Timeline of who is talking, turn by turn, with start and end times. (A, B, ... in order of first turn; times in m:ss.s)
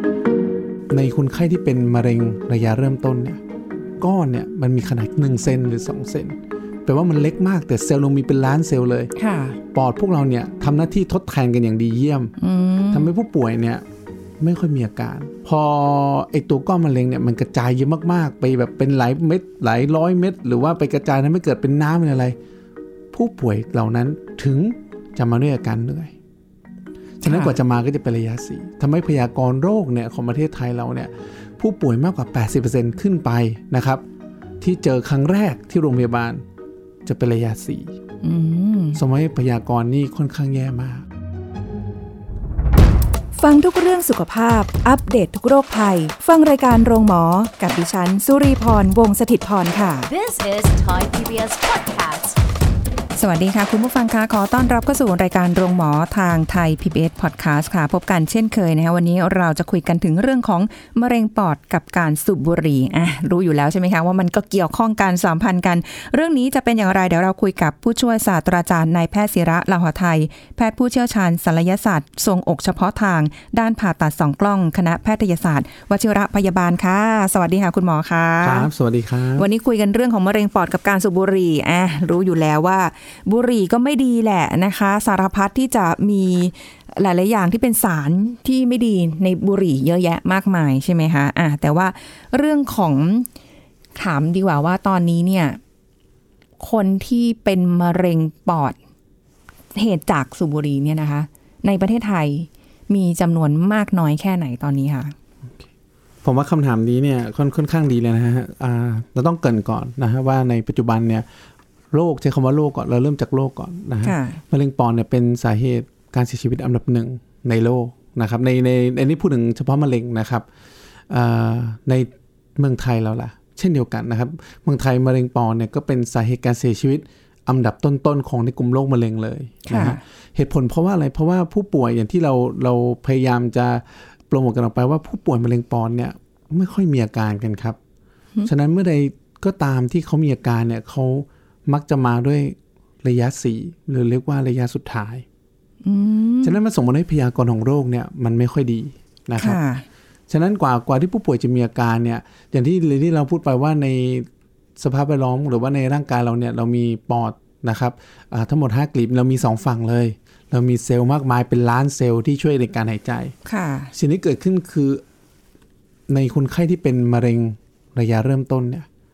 0:00.9-0:03.4 A
0:04.0-0:09.1 A
0:09.2-0:09.6 B
0:09.7-0:12.3 A
0:12.4-0:13.1 B
0:12.9-0:13.8 A
0:14.4-0:22.4 A
0:23.1-0:26.1 A
0:27.2-0:34.0 A
0:27.2-0:27.5 B
0:34.6-0:36.4 A
0:37.0-0:37.9 A
0:38.2-0:39.0 B
0:39.0-0:41.0 A
0:43.4-0:50.1 B
0:50.1-0:52.4 C
0:53.2-1:18.7 B
1:18.4-1:19.5 A
1:19.4-1:33.3 B
1:34.0-1:35.6 B
1:36.6-1:38.8 B
1:39.8-1:45.1 B
1:46.2-1:51.3 A
1:51.9-2:00.5 A
1:54.0-1:54.4 B
2:01.1-2:17.8 A
2:09.7-2:10.0 B
2:18.4-2:25.2 A
2:25.8-2:26.6 B
2:26.4-2:29.6 A
2:29.4-2:29.8 B
2:30.3-2:34.3 A
2:34.8-2:43.3 A
2:43.5-2:43.9 B
2:43.9-2:45.0 A
2:46.1-2:48.9 A